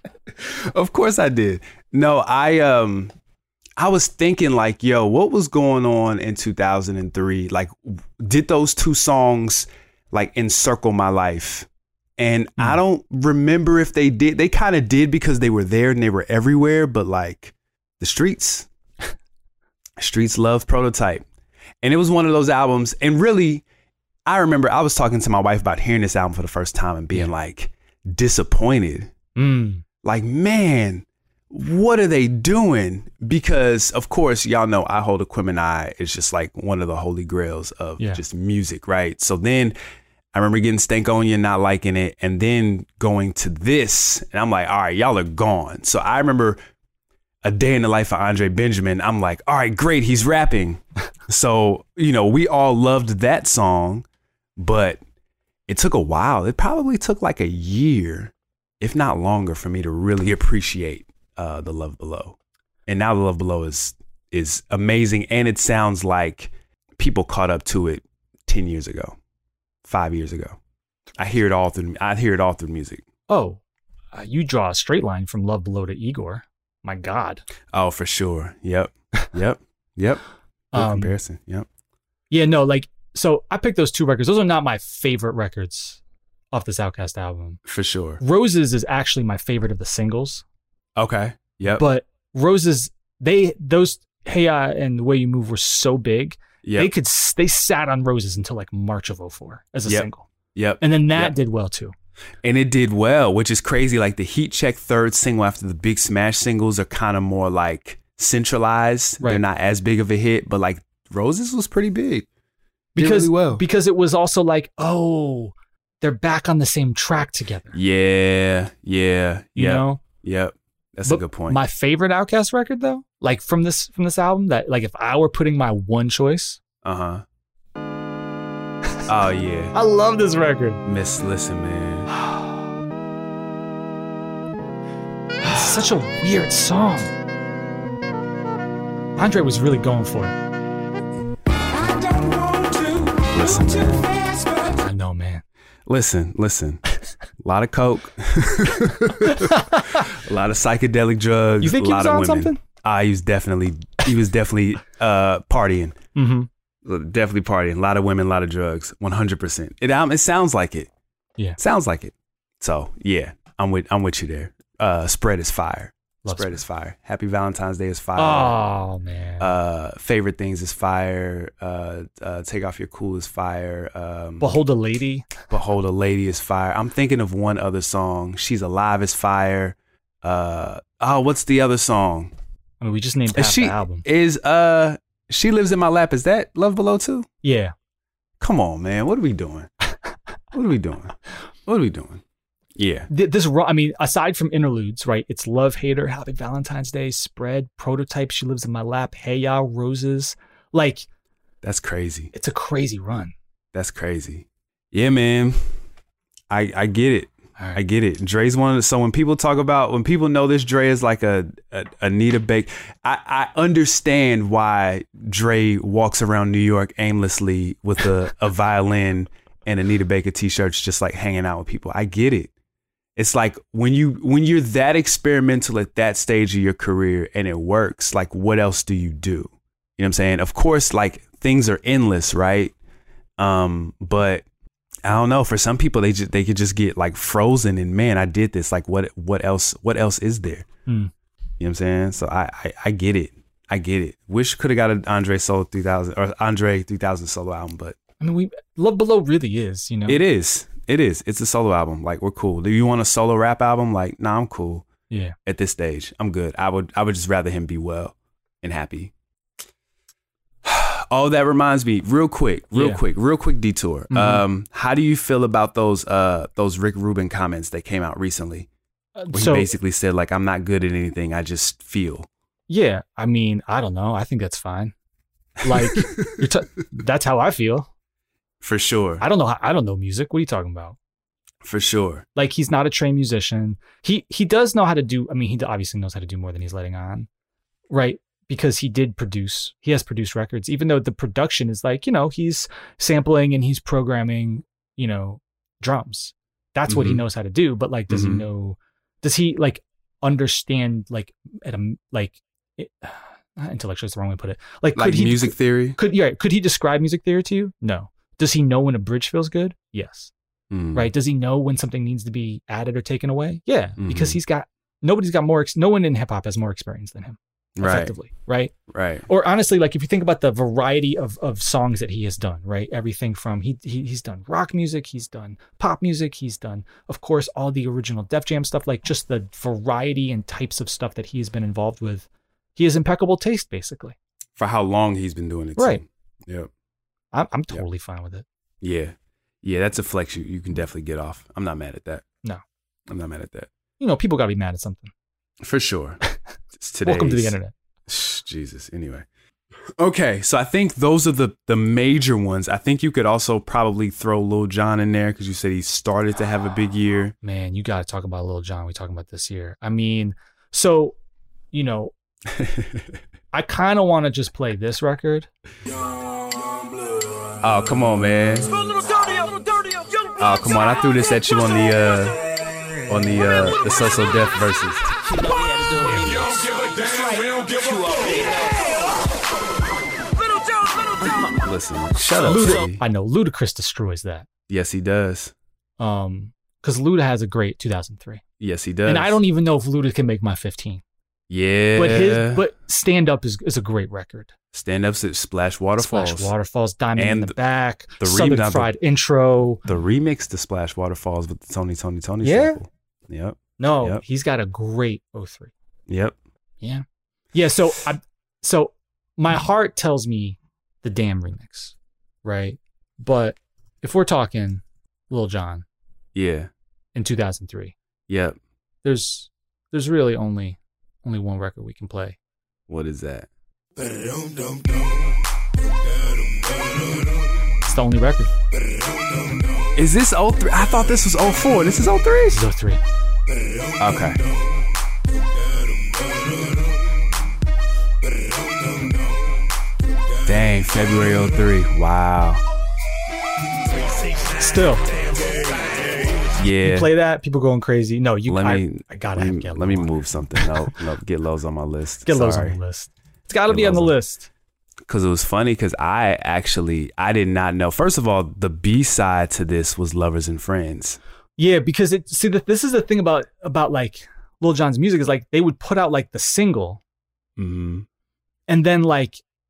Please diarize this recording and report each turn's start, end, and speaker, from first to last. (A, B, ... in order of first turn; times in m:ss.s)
0:00.4-0:03.1 A
0:03.8-0:11.7 A
0:12.2-0:18.7 A
0:20.0-0:21.2 A
0:21.8-0:23.6 A
0:24.2-0:29.1 A
0:29.4-0:29.8 B
0:30.0-0:39.7 A
0:40.3-0:46.6 A
0:47.4-0:54.0 A
0:54.6-0:55.0 A
0:55.7-1:09.2 A
1:09.8-1:10.6 A
1:11.2-1:13.0 A
1:13.3-1:13.6 B
1:14.1-1:17.4 B
1:17.7-1:20.2 A
1:20.7-1:21.1 B
1:20.7-1:21.7 A
1:22.3-1:26.0 B
1:26.5-1:27.6 B
1:27.6-1:28.2 A
1:28.2-1:30.4 B
1:31.0-1:31.8 A
1:31.7-1:40.2 B
1:36.6-1:36.9 A
1:39.8-1:41.3 A
1:40.8-1:41.9 B
1:42.4-1:52.3 A
1:53.0-1:53.6 A
1:53.0-1:57.8 B
1:57.7-2:01.6 A
1:59.6-2:00.0 B
2:01.0-2:06.6 B
2:06.8-2:07.2 A
2:09.1-2:09.7 A
2:09.7-2:10.8 B
2:10.8-2:12.1 A
2:15.4-2:17.1 B
2:19.2-2:20.3 B
2:22.8-2:24.1 A
2:24.6-2:25.4 B
2:25.9-2:26.8 A
2:27.4-2:36.0 A
2:29.2-2:30.0 B
2:31.6-2:32.6 B
2:36.2-2:36.5 B
2:36.8-2:40.9 A
2:41.6-2:48.6 A
2:46.2-2:46.6 B
2:48.2-2:49.5 B
2:49.4-2:54.6 A
2:54.4-2:55.3 B
2:55.5-3:02.3 A
3:02.8-3:04.0 B
3:03.3-3:07.3 A
3:07.4-3:07.7 B
3:08.4-3:09.7 A
3:10.5-3:11.1 A
3:11.6-3:12.2 A
3:12.8-3:13.1 A
3:13.1-3:21.0 B
3:21.6-3:22.3 A
3:22.3-3:23.3 B
3:23.7-3:25.6 A
3:26.5-3:42.5 A
3:43.2-3:52.7 A
3:53.4-3:54.4 A
3:55.0-4:00.6 A
4:01.6-4:08.0 A
4:08.2-4:10.2 B
4:10.1-4:14.9 A
4:15.1-4:15.3 B
4:15.4-4:19.1 A
4:20.6-4:28.7 A
4:22.7-4:23.0 B
4:24.1-4:24.4 B
4:29.2-4:29.7 B
4:29.3-4:32.3 A
4:32.7-4:34.9 B
4:35.6-4:37.9 B
4:35.6-4:36.4 A
4:38.6-4:39.2 A
4:39.2-4:41.0 B
4:41.6-4:42.2 A
4:42.4-4:47.3 B
4:47.9-5:10.3 B
4:56.9-4:57.2 A
4:58.1-4:58.4 A
5:04.9-5:06.0 A
5:10.7-5:11.1 A
5:10.9-5:18.7 B
5:14.0-5:14.4 A
5:17.8-5:18.1 A
5:18.9-5:19.2 A
5:19.3-5:34.2 B
5:34.6-5:36.7 A
5:35.8-5:36.0 B
5:37.3-5:38.4 B
5:38.8-5:42.2 A
5:43.1-5:43.7 A
5:44.0-5:45.1 B
5:45.6-5:46.2 A
5:46.8-5:47.6 A
5:47.0-5:47.7 B
5:48.1-5:49.2 A
5:50.0-5:57.3 A
5:57.4-6:01.2 B
6:01.7-6:02.1 B
6:02.5-6:03.1 A
6:03.5-6:05.5 B
6:07.6-6:08.7 A
6:10.4-6:12.4 A
6:13.1-6:15.1 A
6:15.3-6:18.8 C
6:21.6-6:23.0 A
6:22.4-6:24.5 B
6:24.7-6:25.5 A
6:26.0-6:28.4 B
6:28.6-6:29.4 A
6:29.0-6:31.0 B
6:31.5-6:32.6 A
6:31.9-6:34.5 B
6:34.7-6:36.5 A
6:36.0-6:39.8 B
6:37.2-6:37.5 A
6:38.2-6:38.9 A
6:39.8-6:44.2 A
6:42.4-6:42.8 B
6:43.8-6:45.7 B
6:46.1-6:46.4 A
6:46.8-6:55.8 B
6:56.3-6:56.7 A
6:57.1-6:57.9 B
6:58.3-6:58.6 A
6:59.0-7:02.4 B
7:02.9-7:03.5 A
7:07.8-7:08.5 B
7:09.9-7:12.6 A
7:12.5-7:13.0 B
7:14.0-7:14.4 A
7:20.4-7:22.6 A
7:24.6-7:25.0 B
7:26.5-7:27.1 A
7:26.8-7:30.7 B
7:28.4-7:32.8 A
7:32.2-7:34.5 B
7:33.7-7:34.2 A
7:35.0-7:41.2 A
7:41.6-7:47.0 B
7:47.6-7:48.0 A
7:48.7-7:49.4 B